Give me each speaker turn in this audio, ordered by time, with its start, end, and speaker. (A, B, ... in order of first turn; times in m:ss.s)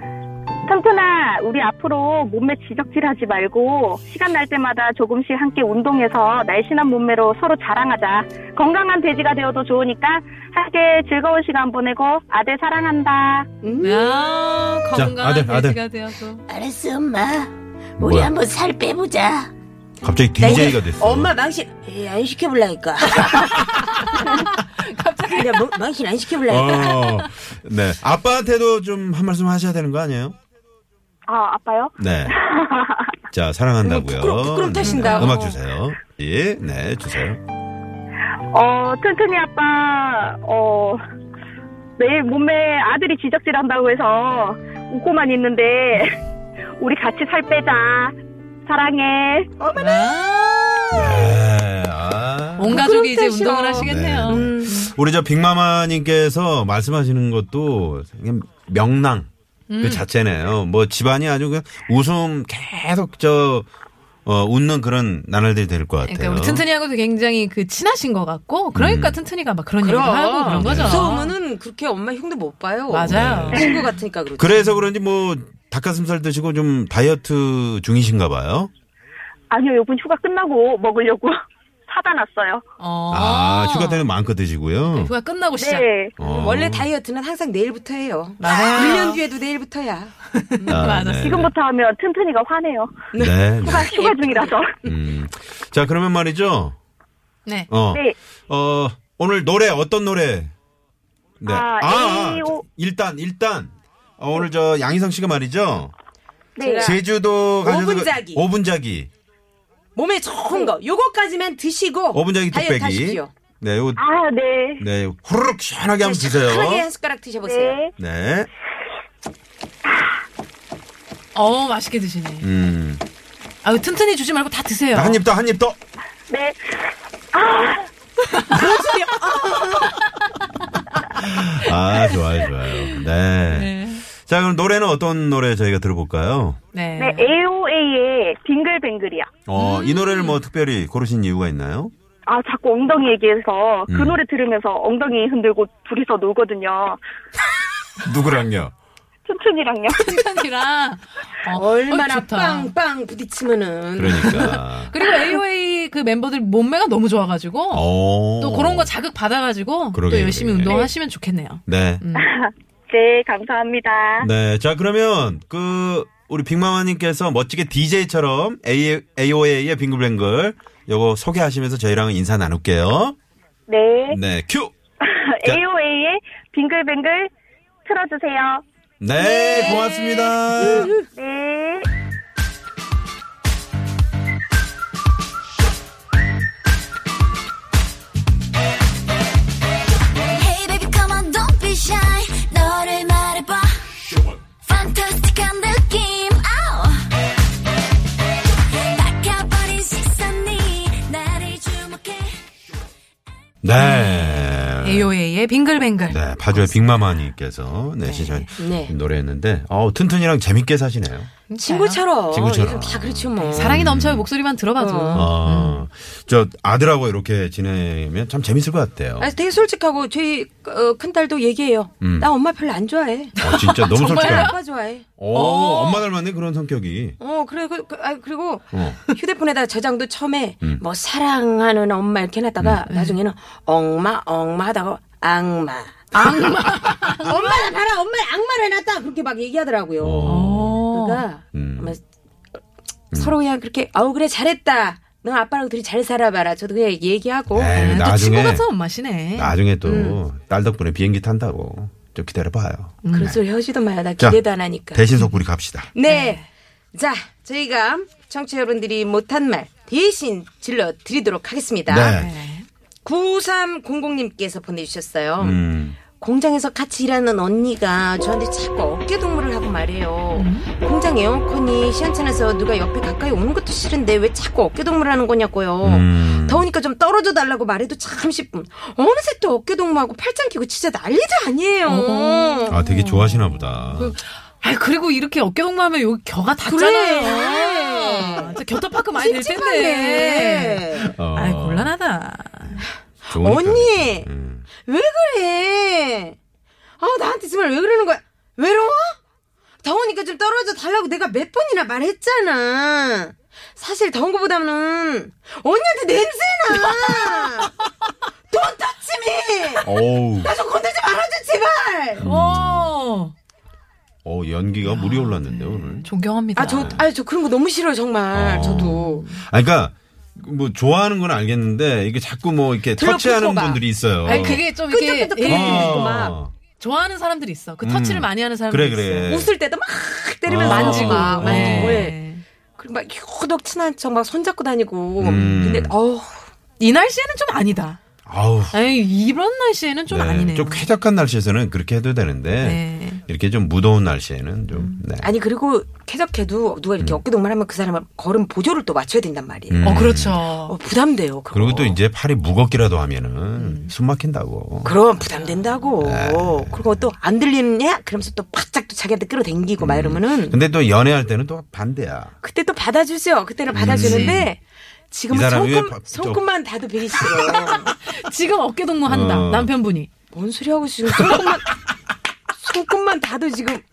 0:00.7-0:13.5 A
0:13.6-0:14.3 B
0:13.8-0:16.4 C
0:15.0-0:15.8 D
0:16.5-0:19.5 B
0:18.0-0:18.4 D
0:20.0-0:21.3 D
0:20.4-0:23.7 B
0:23.6-0:25.7 C
0:25.4-0:27.1 B
0:26.5-0:30.4 D
0:26.8-0:27.2 C
0:31.3-0:33.1 A
0:32.0-0:32.4 D
0:33.3-0:37.4 D
0:33.8-0:35.6 B
0:34.8-0:35.4 C
0:38.5-0:41.0 A
0:42.0-0:46.2 A
0:46.8-0:49.5 A
0:49.6-0:51.3 B
0:49.8-0:50.6 C
0:50.9-0:52.8 D
0:52.6-0:54.9 C
0:52.7-0:54.8 B
0:53.7-0:59.3 D
0:59.7-1:00.1 C
0:59.8-1:03.7 D
1:04.3-1:06.6 D
1:06.0-1:11.3 C
1:08.7-1:09.2 D
1:09.8-1:14.7 B
1:10.5-1:11.1 D
1:12.9-1:13.7 C
1:13.1-1:13.7 D
1:14.4-1:18.7 D
1:19.5-1:22.6 A
1:22.8-1:24.1 C
1:23.1-1:25.1 D
1:25.0-1:25.9 C
1:25.6-1:26.1 A
1:26.2-1:26.9 D
1:26.2-1:30.9 B
1:28.4-1:29.2 C
1:30.3-1:31.4 C
1:30.7-1:31.5 D
1:31.2-1:32.9 A
1:33.1-1:34.6 B
1:33.2-1:33.9 D
1:33.6-1:34.8 A
1:34.8-1:36.8 D
1:37.7-1:40.5 D
1:41.4-1:45.9 D
1:41.5-1:42.6 A
1:46.6-1:47.0 A
1:46.6-1:47.0 B
1:46.8-1:49.1 D
1:47.6-1:48.4 B
1:50.0-1:53.3 B
1:52.1-1:54.0 D
1:54.0-1:54.8 A
1:54.8-1:56.9 D
1:56.0-1:57.8 B
1:57.4-1:57.9 A
1:58.0-1:58.5 D
2:01.4-2:02.5 C
2:02.4-2:03.0 D
2:03.6-2:05.2 C
2:04.9-2:05.8 D
2:06.3-2:07.9 A
2:08.3-2:08.9 C
2:08.5-2:10.0 B
2:11.1-2:16.6 D
2:12.8-2:14.0 C
2:16.7-2:17.3 C
2:17.0-2:19.3 A
2:19.5-2:21.9 D
2:19.6-2:20.4 C
2:22.3-2:27.0 A
2:23.9-2:24.2 D
2:28.0-2:28.7 D
2:29.3-2:30.1 A
2:29.9-2:32.7 C
2:31.5-2:34.5 B
2:34.0-2:35.0 D
2:34.1-2:42.3 C
2:37.7-2:38.9 D
2:39.9-2:40.8 D
2:40.6-2:40.9 A
2:41.7-2:42.0 D
2:42.2-2:44.3 A
2:44.2-2:53.2 D
2:53.7-2:54.2 A
2:54.1-2:54.7 D
2:55.0-2:57.3 A
2:57.8-2:58.6 A
2:59.0-3:00.9 D
2:59.2-3:00.4 A
3:00.6-3:01.0 B
3:01.1-3:01.9 A
3:10.3-3:13.9 E
3:14.6-3:17.1 E
3:18.8-3:22.4 E
3:23.6-3:25.1 D
3:23.8-3:27.1 C
3:26.1-3:31.3 D
3:28.0-3:28.5 C
3:28.6-3:28.9 B
3:31.5-3:32.0 C
3:31.6-3:33.8 B
3:32.3-3:34.3 D
3:33.4-3:35.8 C
3:34.8-3:35.3 B
3:35.1-3:39.3 D
3:39.2-3:43.4 B
3:42.0-3:42.3 D
3:43.4-3:44.6 C
3:43.4-3:44.6 D
3:43.9-3:45.0 B
3:45.2-3:47.2 D
3:45.3-3:46.0 C
3:47.2-3:56.4 B
3:48.7-3:49.0 D
3:52.9-3:53.2 C
3:56.1-3:57.7 C
3:57.0-4:02.0 B
4:00.0-4:00.8 D
4:00.2-4:01.2 C
4:01.5-4:01.9 D
4:03.1-4:08.0 B
4:07.5-4:08.7 D
4:07.7-4:09.6 C
4:09.3-4:13.4 D
4:09.8-4:10.2 B
4:13.0-4:13.4 C
4:13.1-4:15.0 B
4:14.2-4:15.9 D
4:16.0-4:16.4 B
4:16.0-4:16.5 C
4:16.9-4:22.2 B
4:21.9-4:22.3 D
4:22.1-4:22.7 C
4:23.0-4:42.8 B
4:25.4-4:26.0 D
4:30.3-4:30.7 C
4:35.8-4:36.7 D
4:41.8-4:52.9 C
4:42.7-4:44.2 D
4:46.7-4:48.6 B
4:49.1-4:51.1 B
4:51.0-4:51.9 D
4:53.3-4:54.3 B
4:53.3-4:54.7 D
4:54.8-4:56.4 B
4:57.0-4:59.2 B
4:59.8-5:07.7 B
5:08.5-5:12.3 B
5:09.8-5:10.5 D
5:12.2-5:12.9 D
5:12.2-5:13.3 C
5:14.2-5:16.1 D
5:14.8-5:17.0 C
5:16.6-5:19.3 B
5:16.7-5:17.0 D
5:18.3-5:24.6 D
5:18.9-5:19.3 C
5:22.9-5:26.4 B
5:24.2-5:26.2 C
5:25.4-5:26.5 D
5:26.8-5:29.3 C
5:27.8-5:29.5 D
5:29.3-5:32.2 B
5:30.5-5:32.1 D
5:30.5-5:32.4 C
5:32.8-5:36.5 B
5:35.2-5:36.0 D
5:36.8-5:38.0 C
5:38.3-5:38.8 D
5:38.7-5:40.9 C
5:40.1-5:45.3 D
5:42.6-5:43.2 C
5:45.2-5:50.1 B
5:49.7-5:50.4 D
5:49.8-5:50.8 C
5:50.7-5:52.0 B
5:51.5-5:54.9 D
5:53.6-5:53.9 C
5:54.8-6:00.6 B
5:56.0-5:56.9 D
5:59.8-6:02.4 D
6:02.4-6:07.9 B
6:03.7-6:04.5 D
6:03.9-6:04.4 C
6:05.3-6:06.4 D
6:07.4-6:10.1 C
6:09.1-6:09.7 D
6:10.3-6:11.8 B
6:12.5-6:13.8 B